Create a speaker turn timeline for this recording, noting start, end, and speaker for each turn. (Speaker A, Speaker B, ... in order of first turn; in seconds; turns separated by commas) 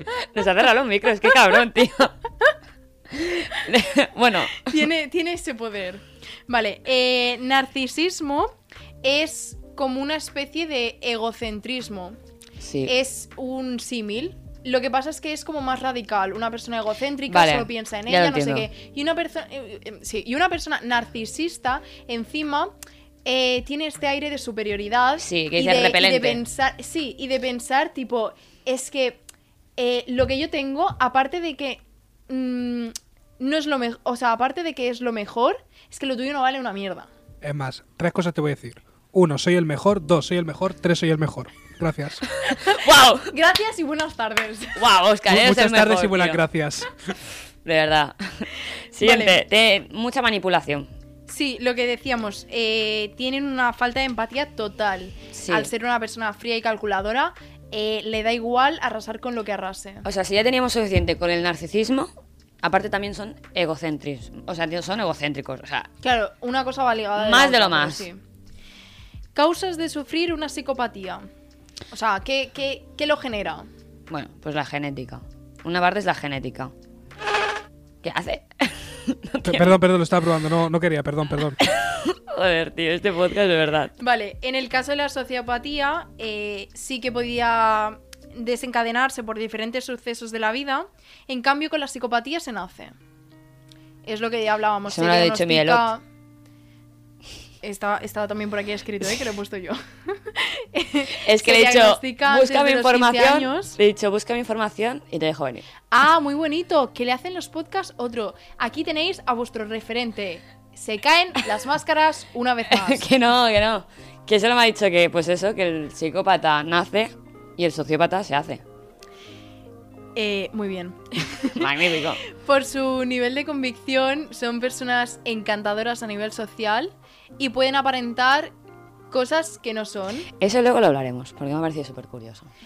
Speaker A: 0.2-2.1, Speaker A: 3.1-4.8, Speaker B: 4.6-12.2, Speaker A: 12.6-12.9, Speaker B: 12.8-22.7, Speaker A: 17.3-18.7, Speaker B: 23.2-29.2, Speaker A: 25.2-26.4, Speaker B: 29.8-37.1, Speaker C: 37.4-42.2, Speaker A: 42.4-43.3, Speaker B: 43.3-44.8, Speaker A: 44.8-46.4, Speaker C: 45.3-47.1, Speaker A: 47.6-50.9, Speaker B: 49.0-49.4, Speaker B: 51.3-60.0, Speaker A: 55.3-55.7, Speaker A: 60.0-62.1, Speaker A: 62.6-65.9, Speaker B: 66.0-68.2, Speaker A: 67.2-68.0, Speaker B: 69.3-71.3, Speaker B: 71.9-73.7, Speaker A: 74.1-76.7, Speaker A: 78.0-79.8, Speaker C: 79.4-81.6, Speaker A: 81.6-83.9, Speaker B: 84.0-92.9, Speaker B: 94.0-96.0, Speaker A: 94.9-95.9, Speaker B: 97.6-103.8, Speaker A: 101.2-105.7, Speaker B: 105.9-113.0, Speaker A: 112.7-118.6, Speaker B: 120.2-121.7, Speaker A: 121.6-122.2, Speaker B: 122.2-128.5, Speaker B: 129.1-130.3, Speaker A: 130.4-132.5